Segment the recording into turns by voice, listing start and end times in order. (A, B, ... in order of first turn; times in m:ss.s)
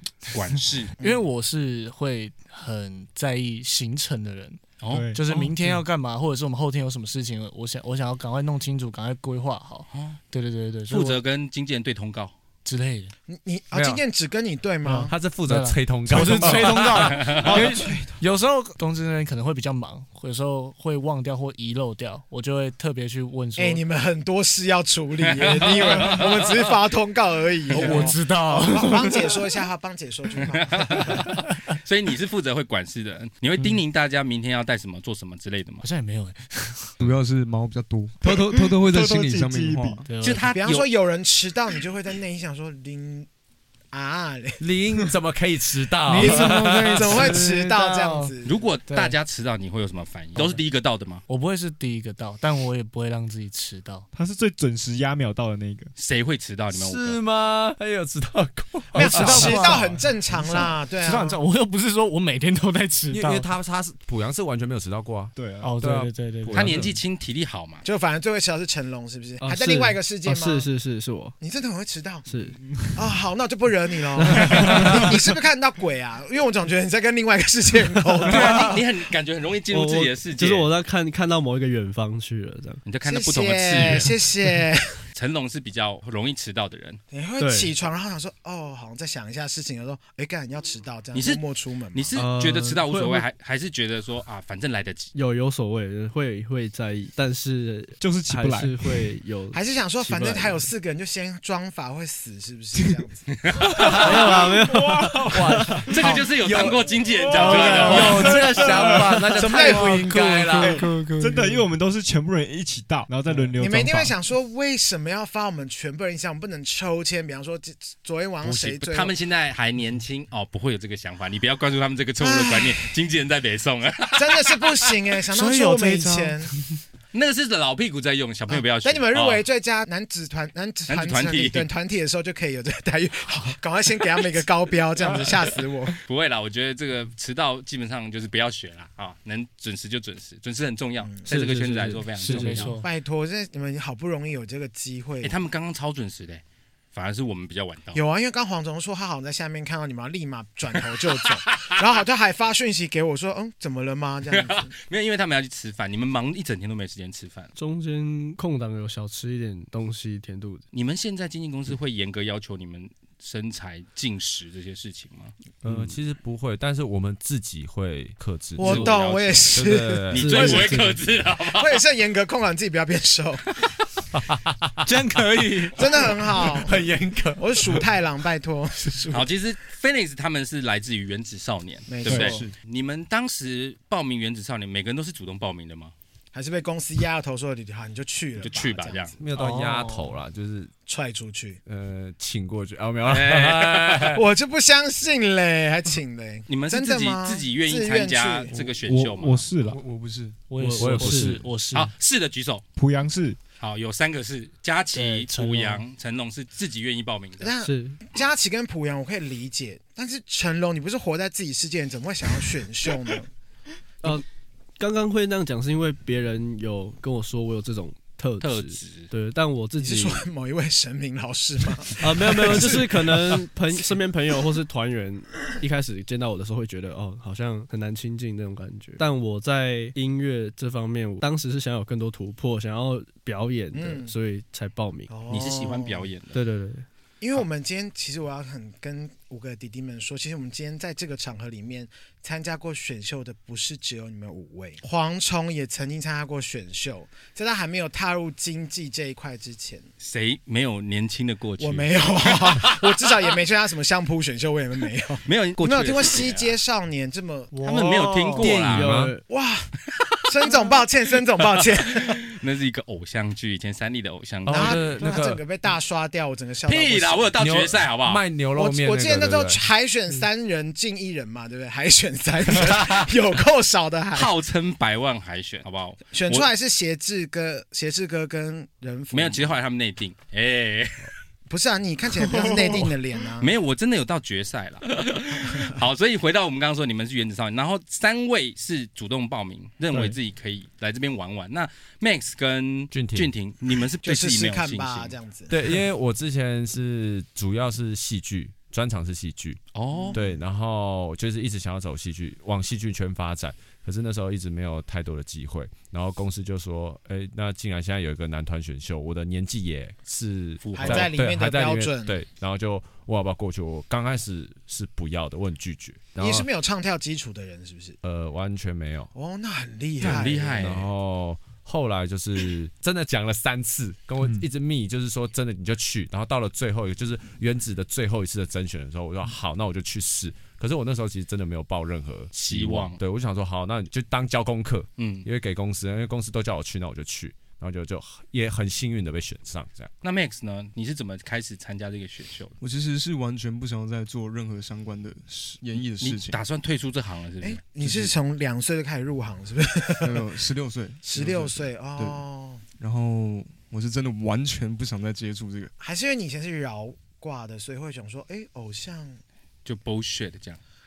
0:00.3-0:00.9 A
0:01.0-0:01.3 B
0:01.0-0:04.6 C
0:04.8-0:05.1 A
0:04.9-0:05.3 D
0:05.1-0:11.2 C
0:09.9-0:10.2 A
0:10.9-0:12.4 A
0:12.6-0:13.1 C
0:13.3-0:15.1 B
0:13.7-0:14.0 E
0:14.8-0:23.8 C
0:15.1-0:17.7 E
0:17.0-0:17.6 A
0:23.6-0:31.2 B
0:25.2-0:26.5 A
0:27.7-0:29.4 C
0:30.5-0:35.8 A
0:35.8-0:37.1 C
0:37.0-0:40.1 F
0:38.2-0:40.0 D
0:40.1-0:40.5 C
0:40.2-0:40.9 A
0:40.5-0:43.3 B
0:43.9-0:44.6 B
0:44.6-0:47.4 E
0:46.0-0:48.4 C
0:46.2-0:48.7 B
0:48.4-0:51.2 A
0:48.9-0:49.2 C
0:51.3-0:54.1 C
0:54.1-0:55.9 D
0:56.0-0:57.2 A
0:56.7-0:59.7 E
0:58.9-1:01.4 B
0:58.9-1:03.5 C
1:03.1-1:07.0 E
1:05.4-1:05.8 D
1:05.6-1:06.8 C
1:06.5-1:07.8 A
1:07.8-1:10.7 B
1:09.4-1:11.4 G
1:11.4-1:12.3 B
1:12.2-1:12.6 G
1:12.6-1:13.0 D
1:13.0-1:18.8 B
1:14.2-1:15.2 G
1:18.2-1:18.7 G
1:18.3-1:20.7 A
1:19.7-1:22.8 G
1:22.9-1:24.1 A
1:23.0-1:25.0 B
1:25.1-1:27.0 A
1:27.1-1:32.2 B
1:27.4-1:27.7 G
1:31.1-1:31.4 A
1:31.9-1:35.1 A
1:32.2-1:33.3 G
1:35.1-1:40.7 G
1:38.0-1:39.0 D
1:39.5-1:43.3 B
1:43.3-1:44.0 A
1:44.0-1:45.9 G
1:45.0-1:45.9 D
1:45.3-1:50.9 E
1:45.9-1:48.4 A
1:47.2-1:49.3 D
1:47.5-1:48.6 C
1:47.9-1:49.0 G
1:49.4-1:50.2 B
1:49.6-1:51.6 C
1:50.6-1:54.1 D
1:50.6-1:51.4 G
1:53.6-1:59.1 B
1:58.4-2:04.9 A
2:02.2-2:02.9 B
2:04.2-2:06.5 B
2:05.3-2:06.6 C
2:07.1-2:09.4 A
2:08.5-2:16.0 B
2:10.9-2:11.7 A
2:16.0-2:22.8 A
2:21.3-2:22.8 G
2:22.2-2:22.9 C
2:22.8-2:25.4 B
2:25.2-2:28.0 A
2:27.9-2:34.7 B
2:34.3-2:37.5 A
2:37.6-2:40.6 G
2:40.7-2:45.3 A
2:45.6-2:46.0 G
2:45.6-2:50.6 E
2:48.6-2:50.8 B
2:48.6-2:49.5 A
2:50.1-2:51.8 A
2:50.2-2:51.0 G
2:51.6-2:53.5 B
2:54.1-2:57.8 E
2:54.9-2:55.7 C
2:55.8-2:56.8 B
2:57.4-2:59.3 B
2:59.1-3:05.9 A
3:01.9-3:02.4 B
3:02.1-3:02.6 F
3:06.3-3:09.2 B
3:08.4-3:09.2 A
3:09.2-3:10.7 E
3:09.3-3:10.2 C
3:10.9-3:11.6 B
3:11.7-3:14.2 E
3:13.1-3:14.2 A
3:14.2-3:18.5 B
3:16.5-3:19.5 A
3:18.8-3:19.8 D
3:19.6-3:20.5 F
3:20.5-3:21.9 C
3:20.6-3:21.4 G
3:20.8-3:21.5 E
3:21.7-3:22.6 A
3:22.8-3:23.4 D
3:23.6-3:27.5 A
3:24.9-3:25.8 C
3:27.4-3:33.3 B
3:27.6-3:28.0 G
3:34.8-3:40.2 G
3:38.4-3:39.1 A
3:39.8-3:43.4 B
3:42.0-3:55.1 G
3:53.7-3:54.1 B
3:55.1-3:56.1 B
3:55.3-3:56.4 A
3:56.3-3:56.9 G
3:57.2-4:09.9 B
4:10.0-4:12.8 A
4:11.6-4:17.5 B
4:15.3-4:16.5 A
4:17.5-4:18.6 C
4:17.6-4:18.9 A
4:18.4-4:19.2 E
4:18.7-4:19.2 G
4:19.3-4:19.7 B
4:20.3-4:22.2 B
4:21.8-4:24.9 A
4:24.5-4:25.4 E
4:24.5-4:27.4 B
4:26.7-4:28.2 A
4:27.4-4:29.6 E
4:28.6-4:34.3 B
4:34.1-4:36.5 A
4:36.1-4:39.6 B
4:39.1-4:41.1 A
4:41.5-4:43.5 B
4:43.4-4:55.2 A
4:49.9-4:50.2 D
4:52.9-4:53.3 E
4:54.0-4:55.5 B
4:55.5-5:16.5 E
4:59.7-5:00.2 A
4:59.9-5:00.4 B
5:10.6-5:11.1 A
5:10.8-5:12.2 B
5:16.2-5:18.0 B
5:18.0-5:19.1 E
5:19.1-5:20.6 B
5:20.0-5:20.9 A
5:20.0-5:39.9 E
5:32.4-5:33.0 A
5:35.0-5:35.3 A
5:40.0-5:42.6 A
5:42.6-5:46.4 F
5:46.0-5:47.6 A
5:47.4-5:50.2 B
5:47.8-5:48.1 F
5:50.0-5:52.2 F
5:51.0-5:52.6 B
5:52.8-5:55.7 F
5:55.8-5:59.2 B
5:59.6-6:00.6 A